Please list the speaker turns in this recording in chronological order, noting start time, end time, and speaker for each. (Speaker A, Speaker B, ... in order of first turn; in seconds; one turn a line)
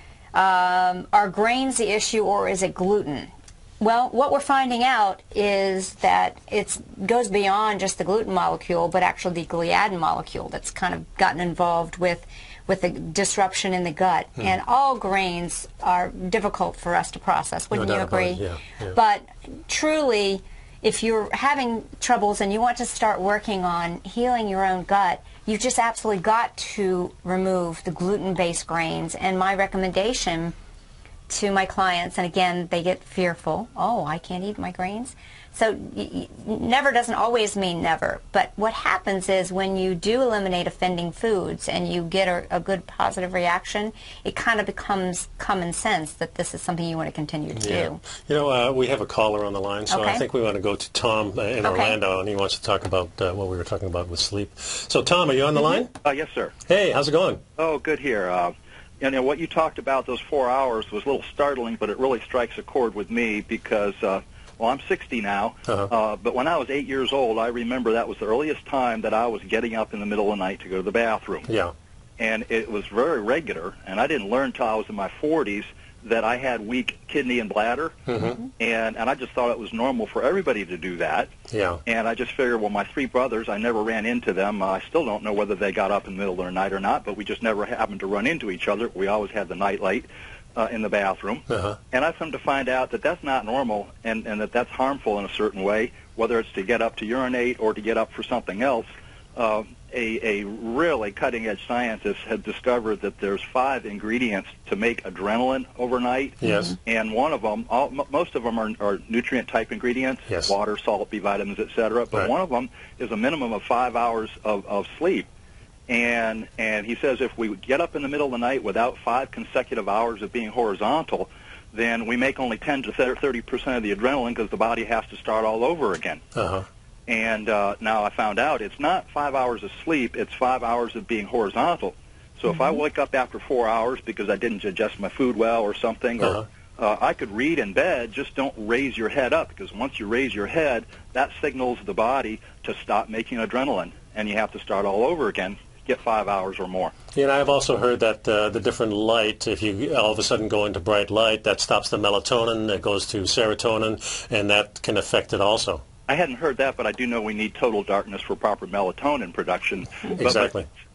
Speaker A: 0.3-30.5
Speaker B: 17.7-19.0
Speaker A: 31.3-48.0
Speaker B: 47.5-55.9
Speaker A: 49.9-50.2
Speaker A: 51.6-52.0
Speaker C: 56.0-56.5
Speaker B: 56.7-57.4
Speaker C: 57.6-71.5
Speaker B: 65.7-65.9
Speaker B: 71.5-71.7
Speaker C: 72.2-78.0
Speaker B: 78.1-78.4
Speaker C: 78.6-81.3
Speaker B: 81.5-81.8
Speaker C: 81.8-115.3
Speaker B: 91.5-91.8
Speaker B: 106.4-106.7
Speaker B: 110.3-110.5
Speaker C: 115.9-126.2
Speaker B: 126.3-126.7
Speaker C: 127.1-146.9
Speaker A: 132.5-132.8
Speaker B: 147.1-155.8
Speaker C: 156.1-160.5
Speaker B: 160.2-160.7